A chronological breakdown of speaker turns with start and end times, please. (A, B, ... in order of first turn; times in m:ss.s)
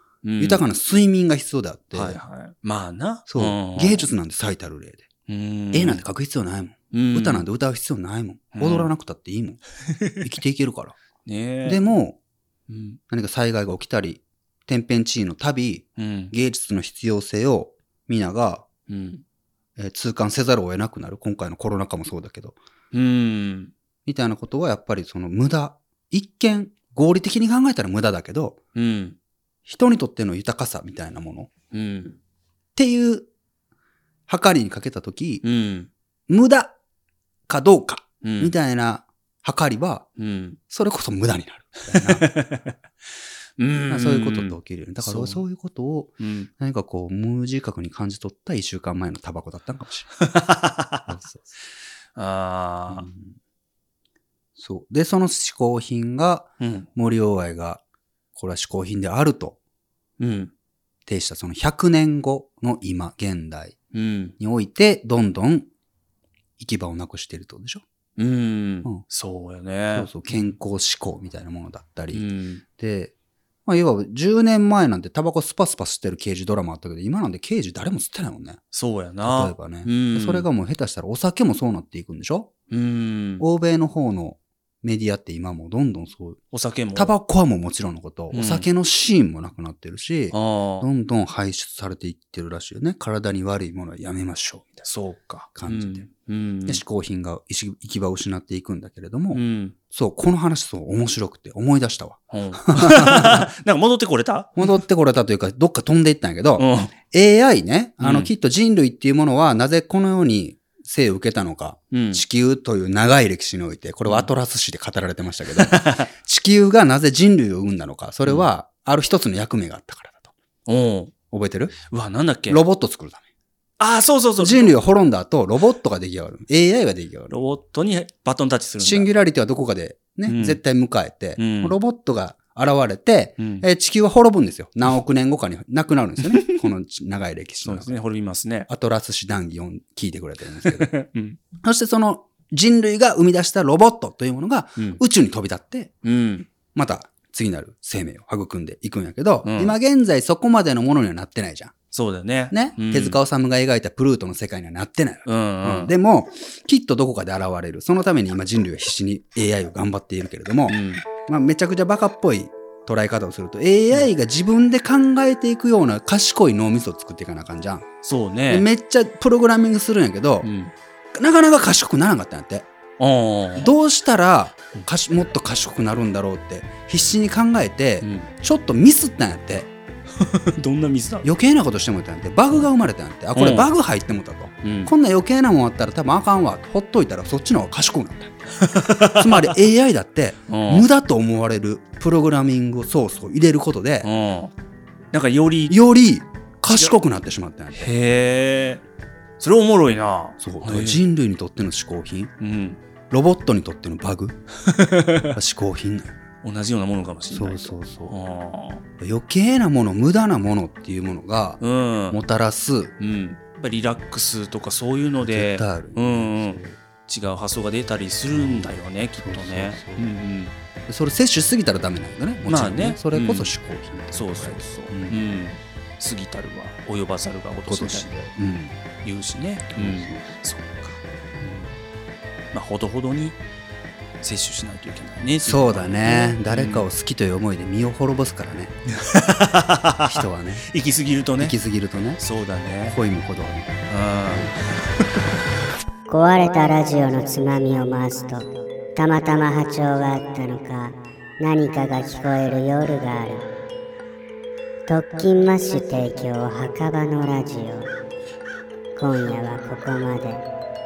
0:00.2-0:00.6 A
0:00.4-0:02.2 B
0:01.9-0:04.1 A
0:03.3-0:05.1 B
0:05.3-0:06.0 A
0:05.7-0:09.6 B
0:06.9-0:07.4 A
0:08.6-0:08.9 A
0:09.9-0:10.3 A
0:10.2-0:11.0 B
0:11.2-0:11.8 A
0:11.6-0:12.2 B
0:12.7-0:13.0 A
0:13.1-0:18.7 B
0:16.0-0:16.3 A
0:18.9-0:19.2 A
0:19.8-0:22.6 B
0:22.9-0:23.7 A
0:24.1-0:28.6 B
0:28.8-0:29.2 A
0:29.7-0:31.5 B
0:31.7-0:32.2 A
0:32.8-0:33.3 B
0:34.3-0:35.4 B
0:35.4-0:35.9 A
0:36.3-0:36.8 B
0:37.5-0:40.1 B
0:38.2-0:38.5 A
0:40.2-0:40.6 A
0:40.7-0:42.3 B
0:41.9-0:42.8 A
0:43.6-0:45.4 A
0:43.9-0:50.1 B
0:46.2-0:46.5 A
0:50.2-0:51.1 A
0:51.1-0:51.4 B
0:52.2-0:53.1 A
0:52.9-0:53.4 B
0:54.6-0:57.8 B
0:56.6-0:56.9 A
0:58.4-0:59.6 B
1:00.2-1:00.5 A
1:01.1-1:03.8 B
1:03.9-1:04.4 A
1:04.4-1:05.7 B
1:06.6-1:07.8 B
1:08.2-1:10.4 A
1:09.9-1:12.2 B
1:12.1-1:12.6 A
1:12.8-1:13.1 B
1:13.7-1:18.6 B
1:18.7-1:20.5 A
1:19.2-1:22.5 B
1:22.7-1:23.4 A
1:23.4-1:26.4 B
1:26.5-1:27.1 A
1:26.9-1:34.9 B
1:28.3-1:28.7 A
1:30.3-1:30.9 A
1:34.8-1:36.8 A
1:35.6-1:36.1 B
1:36.7-1:43.5 B
1:39.3-1:39.8 A
1:42.3-1:44.8 A
1:44.6-2:00.3 B
1:46.6-1:46.9 A
1:48.0-1:48.3 A
1:51.9-1:52.2 A
1:54.1-1:54.3 A
1:55.6-1:56.1 A
2:00.7-2:01.1 A
2:01.3-2:01.8 B
2:01.9-2:02.6 A
2:02.5-2:03.2 B
2:03.8-2:04.8 A
2:04.4-2:07.4 B
2:07.3-2:09.1 A
2:08.8-2:18.0 B
2:10.3-2:10.6 A
2:11.4-2:11.8 A
2:13.4-2:13.6 A
2:16.2-2:16.5 A
2:17.6-2:18.7 A
2:18.7-2:20.9 B
2:20.6-2:21.4 A
2:21.6-2:26.0 B
2:26.0-2:26.5 A
2:26.7-2:31.8 B
2:29.4-2:29.8 A
2:31.9-2:33.2 A
2:32.5-2:47.9 B
2:35.3-2:35.9 A
2:40.7-2:41.1 A
2:48.0-2:48.7 A
2:48.5-2:50.5 B
2:50.4-2:50.7 A
2:51.2-2:52.7 B
2:53.0-2:53.7 A
2:53.6-2:59.7 B
2:58.0-2:58.3 A
3:00.2-3:01.3 A
3:01.2-3:08.5 B
3:03.4-3:03.7 A
3:04.6-3:04.9 A
3:08.6-3:09.6 A
3:09.0-3:14.1 B
3:10.5-3:10.9 A
3:14.0-3:14.5 A
3:15.1-3:15.8 A
3:15.7-3:17.9 B
3:16.7-3:17.0 A
3:17.8-3:18.8 A
3:19.4-3:21.0 A
3:20.4-3:22.3 B
3:22.4-3:22.8 A
3:23.1-3:24.4 B
3:24.6-3:25.4 A
3:25.3-3:26.2 B
3:26.4-3:28.8 A
3:27.3-3:28.2 B
3:29.0-3:32.9 B
3:31.6-3:32.2 A
3:33.0-3:40.5 A
3:35.3-3:36.8 B
3:38.4-3:40.1 B
3:40.9-3:45.2 B
3:42.5-3:43.5 A
3:44.1-3:48.1 A
3:47.7-3:48.8 B
3:49.0-3:51.0 A
3:49.8-3:50.4 B
3:51.4-3:51.7 B
3:52.5-3:53.4 A
3:54.2-3:56.9 A
3:55.4-3:58.7 B
3:58.9-4:01.6 A
4:00.0-4:00.7 B
4:01.4-4:02.2 B
4:02.2-4:03.0 A
4:02.9-4:03.8 B
4:03.9-4:05.0 A
4:06.1-4:13.5 C
4:14.9-4:17.9 C
4:19.0-4:20.4 C